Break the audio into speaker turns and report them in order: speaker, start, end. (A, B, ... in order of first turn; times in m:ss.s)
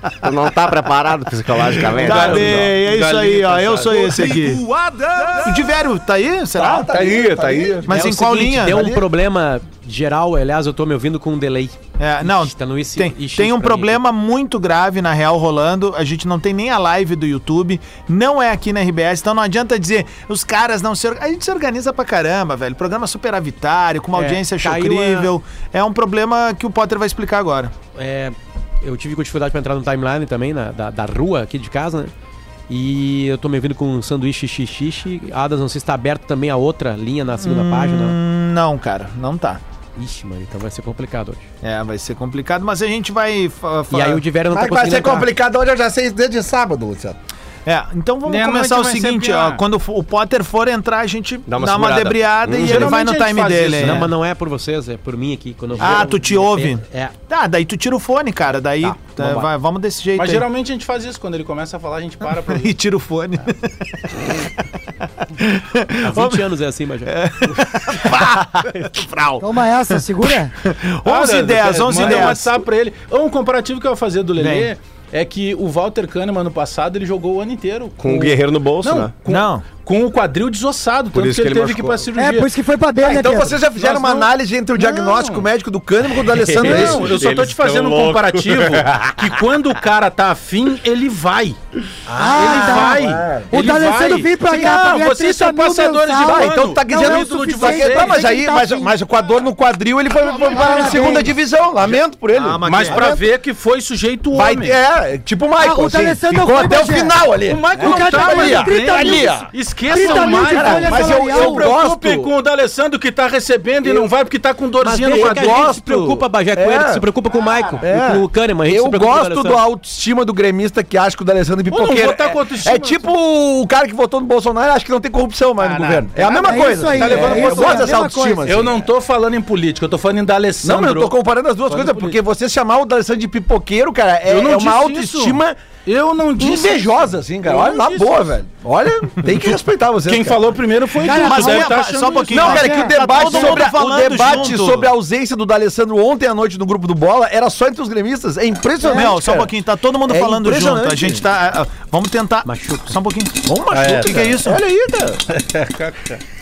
0:00.2-0:02.8 A
0:01.9-0:06.9 B
0:02.0-0:04.2 C
0:06.5-0:07.9 D
0:06.9-0:07.9 A
0:07.8-0:09.0 B
0:07.9-0:14.0 E
0:12.0-0:27.7 B
0:24.1-0:25.3 E
0:28.0-0:32.1 E
0:32.7-0:38.2 E
0:37.4-0:39.6 B
0:40.0-0:41.4 E
0:41.6-0:44.2 B
0:43.9-0:45.3 E
0:44.5-0:47.2 D
0:47.6-0:54.1 B
0:48.2-0:49.6 C
0:51.5-0:52.9 A
0:52.6-0:54.0 C
0:53.8-0:57.1 E
0:55.8-1:00.4 B
0:58.8-0:59.5 E
1:00.2-1:02.7 C
1:02.5-1:04.5 B
1:05.4-1:06.4 B
1:06.0-1:07.2 E
1:07.1-1:09.5 B
1:09.4-1:10.5 F
1:10.6-1:12.5 B
1:11.0-1:22.5 C
1:14.4-1:14.7 B
1:18.0-1:19.1 A
1:19.3-1:19.6 B
1:21.1-1:22.0 A
1:22.2-1:23.6 F
1:23.0-1:27.1 D
1:23.8-1:25.4 C
1:26.3-1:29.2 A
1:26.6-1:31.6 C
1:32.1-1:33.5 D
1:32.1-1:38.9 F
1:32.3-1:38.2 C
1:33.7-1:34.2 B
1:34.5-1:34.8 D
1:36.2-1:43.1 D
1:40.4-1:41.3 F
1:42.3-1:43.0 B
1:42.7-1:44.8 C
1:42.9-1:43.2 F
1:44.3-1:52.3 D
1:45.6-1:47.2 F
1:47.4-1:55.6 C
1:47.7-1:49.4 F
1:49.9-1:51.7 F
1:53.8-1:54.1 D
1:54.8-1:59.6 E
1:55.1-1:57.0 D
1:57.8-2:08.8 D
2:01.7-2:03.1 C
2:05.6-2:11.1 C
2:06.2-2:08.6 F
2:10.6-2:15.6 D
2:11.7-2:12.0 E
2:14.3-2:18.3 C
2:16.4-2:20.4 D
2:20.0-2:22.6 C
2:21.0-2:24.9 B
2:21.0-2:21.7 F
2:22.3-2:29.5 D
2:22.5-2:23.3 F
2:28.9-2:33.4 B
2:30.0-2:31.2 D
2:32.4-2:32.9 E
2:33.4-2:35.2 D
2:33.7-2:34.3 C
2:34.0-2:34.6 B
2:35.3-2:36.2 C